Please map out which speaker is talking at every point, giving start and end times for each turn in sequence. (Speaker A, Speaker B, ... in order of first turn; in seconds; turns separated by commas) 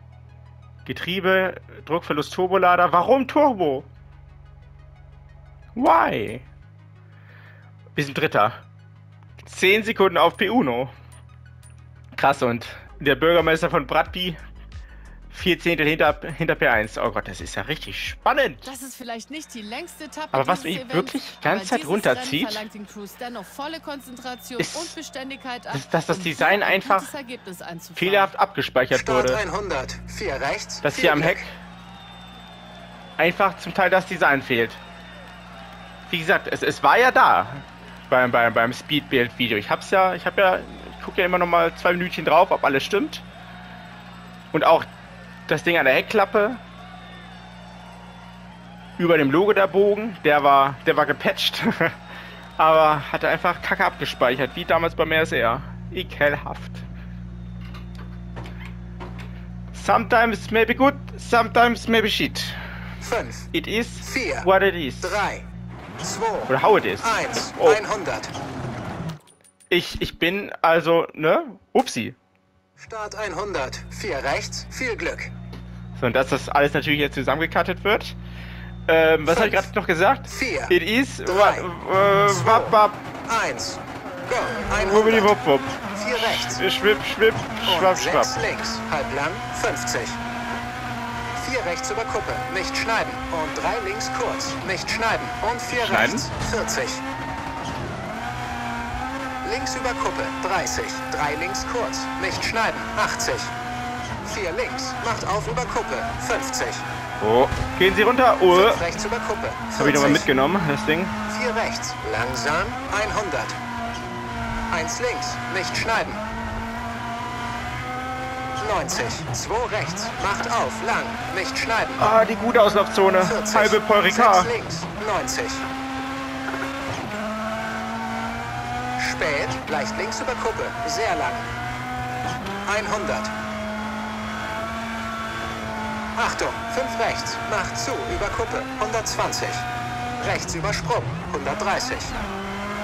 Speaker A: 0.8-3.9, Speaker A: 5.7-6.5, Speaker A: 8.0-8.6, Speaker A: 9.4-10.9, Speaker A: 12.1-14.4, Speaker A: 15.3-18.7, Speaker B: 18.6-28.3, Speaker A: 20.3-22.6, Speaker A: 24.6-24.9, Speaker A: 25.7-27.1, Speaker A: 27.9-29.4, Speaker C: 28.9-31.4, Speaker A: 30.8-31.5, Speaker A: 33.2-34.8, Speaker A: 36.1-43.2, Speaker A: 44.5-44.9, Speaker A: 45.5-46.6, Speaker A: 49.0-52.0, Speaker A: 52.6-56.8, Speaker A: 59.7-62.6, Speaker C: 63.0-63.5, Speaker A: 63.5-65.2, Speaker C: 64.0-64.5, Speaker C: 65.0-65.5, Speaker C: 66.0-68.3, Speaker A: 66.5-67.8, Speaker A: 69.7-72.2, Speaker C: 72.8-75.3, Speaker A: 76.0-78.2, Speaker A: 78.9-83.0, Speaker C: 79.3-79.7, Speaker C: 80.3-81.7, Speaker C: 82.2-85.3, Speaker A: 84.8-88.3, Speaker C: 85.9-86.6, Speaker C: 87.6-90.2, Speaker C: 91.3-97.0, Speaker A: 95.7-96.3, Speaker C: 99.4-103.5, Speaker C: 104.2-106.9, Speaker A: 107.2-108.8, Speaker C: 108.5-110.3, Speaker A: 109.8-111.1, Speaker C: 111.3-113.6, Speaker C: 114.7-116.2, Speaker C: 118.6-122.1, Speaker A: 122.0-124.5, Speaker C: 123.2-125.7, Speaker C: 129.0-131.5, Speaker C: 132.7-133.3, Speaker C: 136.1-139.7, Speaker C: 140.2-142.2